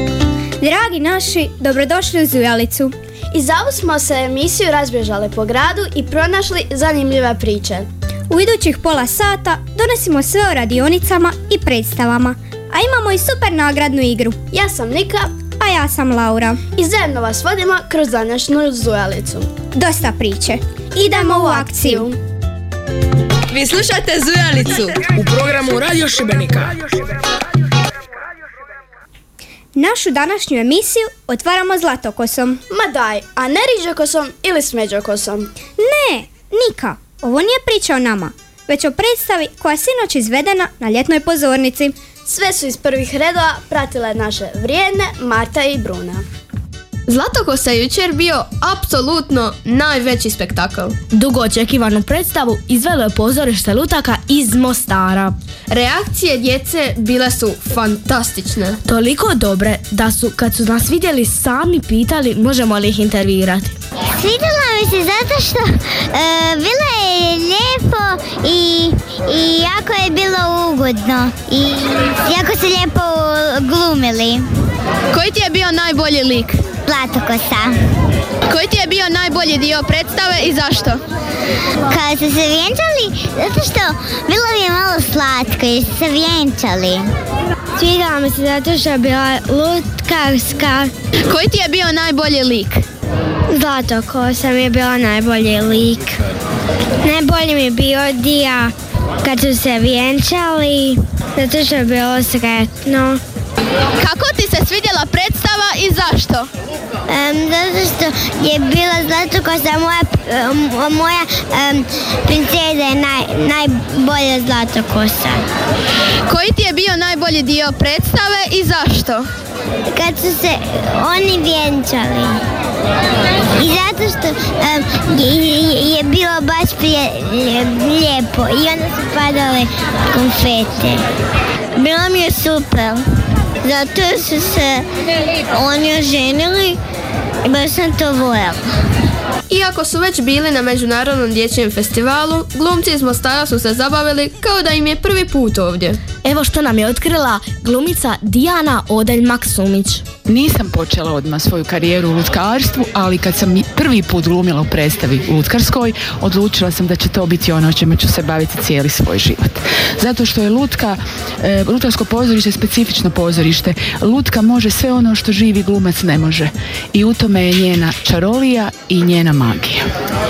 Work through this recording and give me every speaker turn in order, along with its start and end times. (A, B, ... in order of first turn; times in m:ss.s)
0:00.6-0:02.9 A
0:03.3-0:07.9 B
0:08.3-0:14.4 A
0:14.5-0:15.3 B
0:15.6-0:16.6 A
0:16.8-0:19.5 B
0:19.7-0:22.0 A
0:21.0-0:22.2 B
0:29.7-0:32.6 A
0:32.7-0:35.5 B
0:35.8-0:41.9 A
0:42.2-0:46.2 B
0:47.1-0:51.0 C
0:51.1-0:55.3 D
0:55.7-0:58.8 C
0:58.8-1:03.7 D
1:04.2-1:14.4 E
1:15.1-1:16.6 C
1:16.8-1:17.7 E
1:18.5-1:21.0 C
1:21.9-1:27.0 E
1:27.8-1:30.9 E
1:31.2-1:32.8 C
1:33.5-1:36.1 E
1:37.0-1:43.2 E
1:44.0-1:46.5 C
1:47.1-1:55.4 E
1:56.3-1:59.3 C
1:59.9-2:02.4 E
2:03.6-2:11.0 E
2:11.8-2:13.0 E
2:13.6-2:14.8 E
2:15.5-2:16.8 E
2:17.4-2:18.6 E
2:19.5-2:26.2 C
2:26.2-2:27.2 D
2:28.4-2:30.0 C
2:30.2-2:49.8 F